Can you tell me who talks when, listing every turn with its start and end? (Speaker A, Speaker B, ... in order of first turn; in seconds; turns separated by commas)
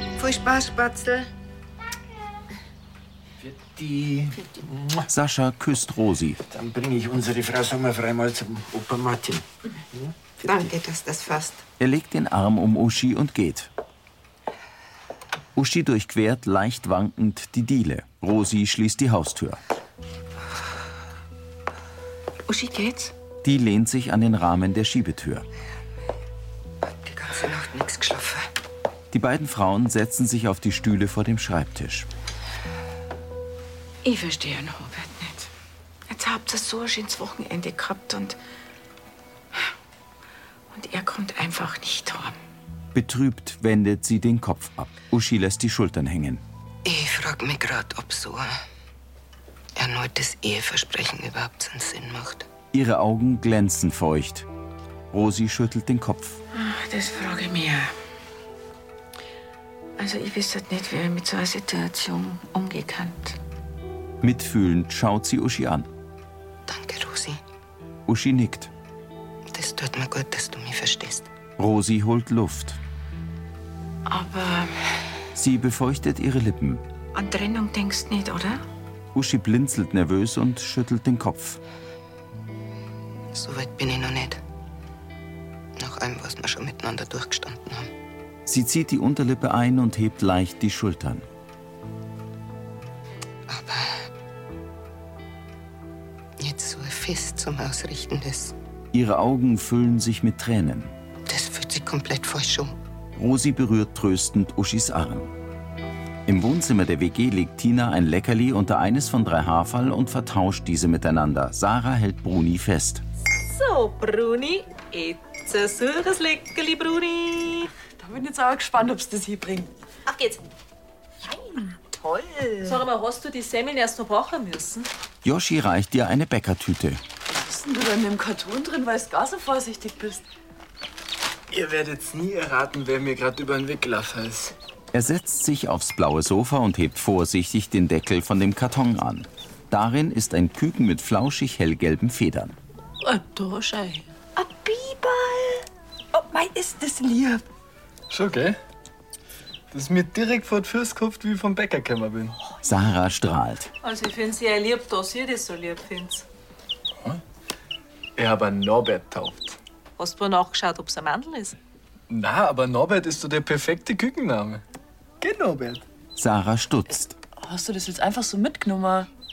Speaker A: 0.2-1.3, Speaker B: 3.4-5.1, Speaker C: 5.1-6.4, Speaker B: 6.5-10.7, Speaker A: 10.4-11.6, Speaker C: 11.8-13.7, Speaker C: 15.6-19.6, Speaker D: 22.5-23.1, Speaker C: 23.4-25.5, Speaker A: 26.9-28.5, Speaker C: 29.1-32.1, Speaker D: 34.0-35.5, Speaker D: 36.1-38.4, Speaker D: 40.7-42.4, Speaker C: 42.9-46.4, Speaker A: 46.9-48.6, Speaker A: 49.8-52.5, Speaker C: 52.7-54.5, Speaker C: 55.1-56.4, Speaker D: 56.5-57.9, Speaker D: 60.0-63.4, Speaker C: 64.2-65.9, Speaker A: 66.7-67.4, Speaker C: 68.1-68.7, Speaker A: 69.5-71.3, Speaker C: 71.6-72.8, Speaker D: 74.1-74.8, Speaker C: 75.3-76.8, Speaker D: 77.1-78.6, Speaker C: 79.1-81.6, Speaker A: 83.3-84.4, Speaker A: 85.8-87.9, Speaker C: 88.5-91.2, Speaker A: 93.5-94.0, Speaker A: 96.4-98.5, Speaker C: 98.9-100.9, Speaker A: 101.3-102.8, Speaker C: 103.2-105.3, Speaker C: 106.3-113.0, Speaker E: 113.5-117.7, Speaker F: 118.0-119.7, Speaker E: 120.1-120.4, Speaker F: 121.9-122.8, Speaker E: 122.6-124.9, Speaker C: 125.2-127.0, Speaker F: 127.3-130.2, Speaker G: 131.5-134.6, Speaker C: 134.9-142.6, Speaker E: 143.1-144.1, Speaker F: 144.4-145.6, Speaker F: 146.1-147.4, Speaker G: 148.1-148.6, Speaker G: 149.7-152.4, Speaker C: 152.6-153.7, Speaker E: 153.8-156.2, Speaker G: 158.2-159.6, Speaker E: 160.0-161.6, Speaker G: 162.1-164.6, Speaker G: 165.2-165.8, Speaker C: 166.2-167.1, Speaker F: 167.4-169.1